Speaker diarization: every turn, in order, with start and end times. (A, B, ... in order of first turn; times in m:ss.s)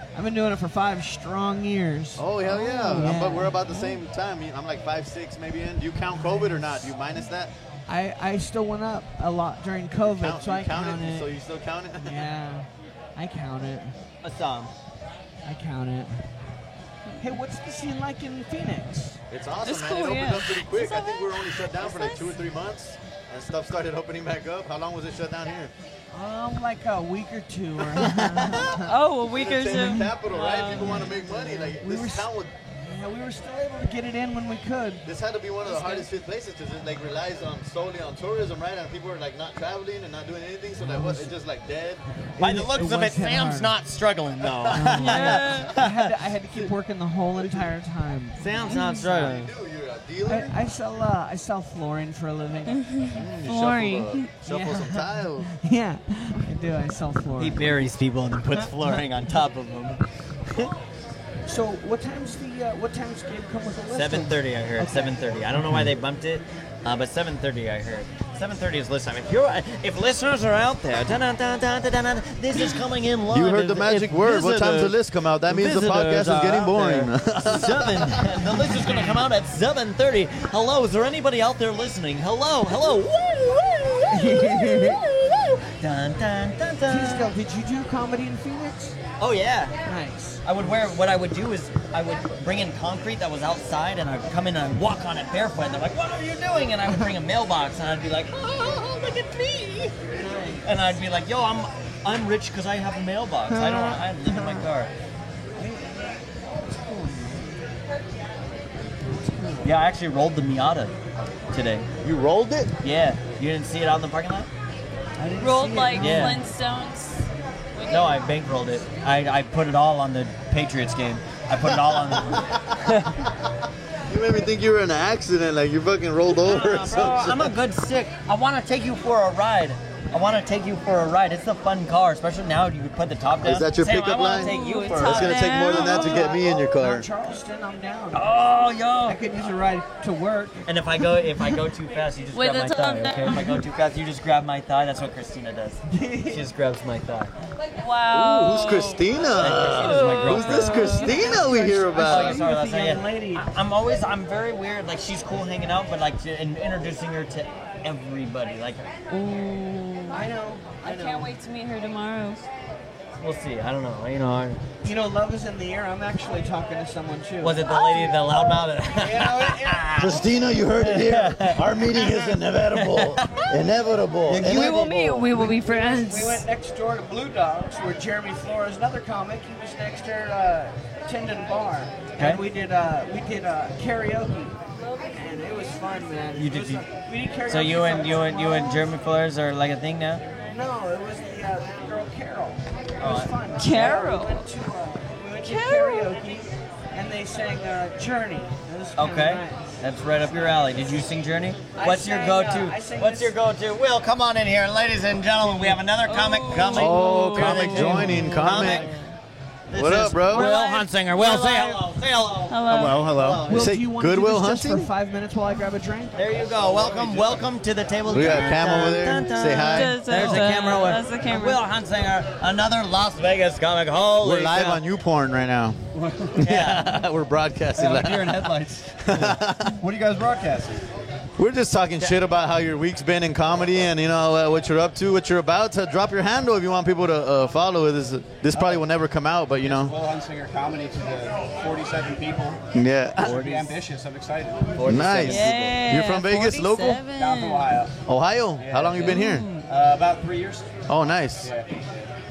0:00.1-0:03.6 A
0:02.2-0:07.5 B
0:02.5-0:03.0 C
0:07.9-0:11.3 A
0:10.2-0:12.3 B
0:12.0-0:14.0 A
0:14.2-0:14.7 D
0:15.4-0:16.2 A
0:17.2-0:19.2 A
0:19.3-0:25.7 B
0:19.6-0:22.4 C
0:26.1-0:28.9 A
0:28.0-0:28.7 B
0:28.7-0:31.2 C
0:29.3-0:32.5 B
0:30.8-0:35.0 A
0:35.0-0:42.0 B
0:35.7-0:36.0 C
0:40.8-0:41.3 A
0:42.3-0:43.7 A
0:42.4-0:45.9 D
0:44.7-0:48.4 A
0:45.0-0:45.7 C
0:48.4-0:49.5 D
0:48.6-0:49.0 C
0:49.0-0:50.6 B
0:50.2-0:52.8 A
0:52.8-0:54.3 C
0:53.1-0:55.5 B
0:54.4-0:57.7 A
0:57.4-1:00.7 D
1:01.4-1:05.2 A
1:03.9-1:15.0 D
1:13.3-1:18.3 B
1:15.5-1:27.3 D
1:24.1-1:25.0 A
1:26.9-1:29.0 A
1:29.2-1:29.8 D
1:29.8-1:30.4 A
1:30.4-1:40.0 D
1:40.2-1:40.9 A
1:40.6-1:44.9 D
1:43.5-1:44.6 A
1:45.6-1:47.5 A
1:49.1-1:49.7 A
1:49.6-1:50.9 D
1:51.5-1:51.9 D
1:52.0-1:52.7 B
1:52.8-1:54.5 D
1:55.2-1:56.5 A
1:55.4-1:58.4 C
1:56.0-1:56.4 D
1:57.9-2:03.2 D
2:01.9-2:02.8 B
2:04.1-2:07.5 B
2:06.3-2:15.7 D
2:13.4-2:17.0 B
2:14.3-2:16.4 C
2:15.8-2:18.3 A
2:18.1-2:19.2 D
2:19.0-2:20.6 A
2:20.6-2:27.3 D
2:22.3-2:23.6 C
2:25.9-2:26.4 A
2:27.8-2:29.0 C
2:28.1-2:32.4 B
2:29.4-2:31.4 D
2:29.7-2:31.5 C
2:31.0-2:33.4 A
2:31.9-2:38.8 D
2:39.1-2:40.3 C
2:40.1-2:41.3 A
2:40.8-2:42.4 C
2:43.2-2:44.6 D
2:44.8-2:47.7 A
2:47.4-2:50.2 D
2:47.7-2:48.4 C
2:49.0-2:50.1 A
2:50.0-2:54.9 B
2:50.8-2:52.0 D
2:52.7-2:53.5 D
2:54.2-2:55.3 D
2:54.4-2:56.4 C
2:55.4-3:04.6 A
3:02.2-3:02.4 D
3:05.1-3:08.9 A
3:06.4-3:06.9 D
3:07.4-3:10.2 D
3:10.5-3:19.8 A
3:13.0-3:13.3 D
3:13.6-3:14.4 C
3:15.4-3:16.1 C
3:19.0-3:28.9 D
3:20.3-3:20.6 A
3:21.7-3:23.3 A
3:26.0-3:29.2 C
3:26.7-3:28.9 B
3:29.7-3:33.7 D
3:29.7-3:30.5 B
3:30.2-3:31.8 C
3:32.5-3:33.1 C
3:33.5-3:34.9 B
3:33.5-3:36.2 A
3:36.2-3:44.8 D
3:36.3-3:37.5 E
3:38.1-3:40.4 B
3:38.1-3:38.6 E
3:39.5-3:41.6 C
3:44.2-3:45.8 B
3:45.9-3:46.4 E
3:46.4-3:49.8 B
3:46.4-3:46.9 D
3:47.8-3:50.8 E
3:51.4-3:59.9 B
3:58.5-3:58.8 E
3:59.6-4:02.6 E
4:02.7-4:03.4 B
4:03.2-4:05.3 E
4:03.2-4:03.8 D
4:04.8-4:05.7 D
4:04.8-4:07.0 B
4:05.3-4:07.8 C
4:07.1-4:07.9 E
4:08.0-4:09.5 B
4:08.6-4:10.8 E
4:09.0-4:09.7 C
4:10.9-4:11.5 B
4:11.4-4:12.1 E